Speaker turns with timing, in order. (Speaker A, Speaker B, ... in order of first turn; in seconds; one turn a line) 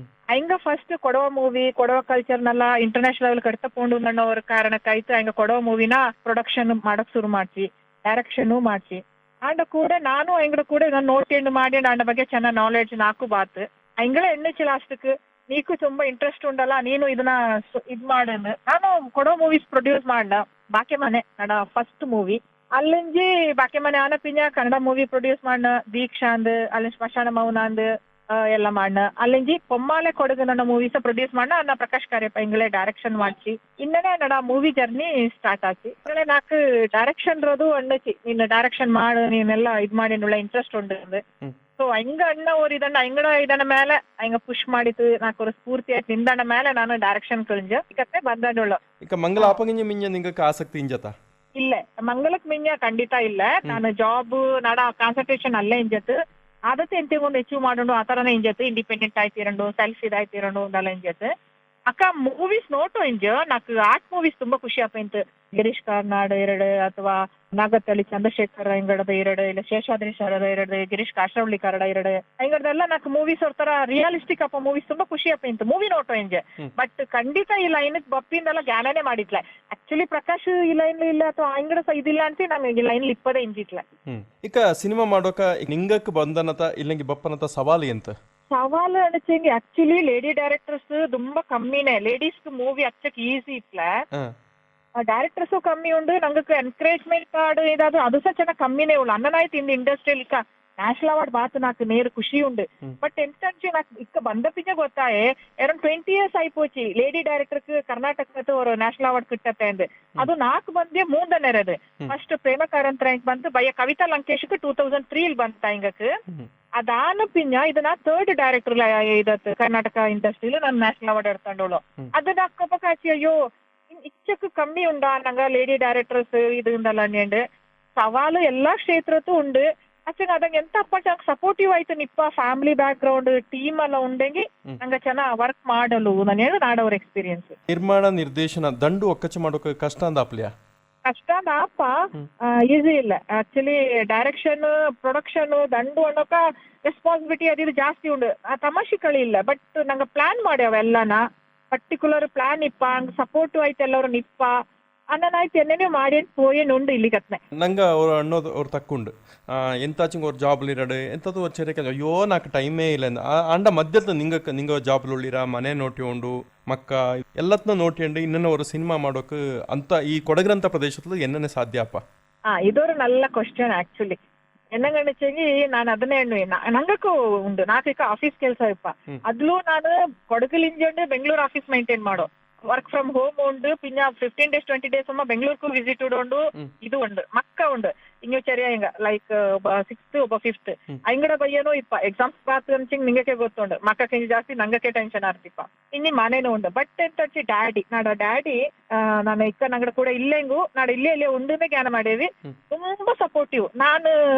Speaker A: 0.3-41.2
Speaker A: 41.8-48.8
Speaker B: 49.0-51.1
Speaker A: 51.6-56.2
Speaker A: 56.7-61.3
Speaker A: 61.9-83.8
Speaker B: 84.1-88.1
Speaker A: 88.5-93.9
Speaker A: 95.1-116.1
Speaker A: 116.8-123.3
Speaker A: 123.9-127.4
Speaker A: 128.0-137.6
Speaker B: 137.7-140.5
Speaker A: 141.0-142.1
Speaker A: 142.6-154.5
Speaker A: 155.1-157.4
Speaker B: 157.6-172.0
Speaker A: 172.5-174.2
Speaker A: 174.7-204.1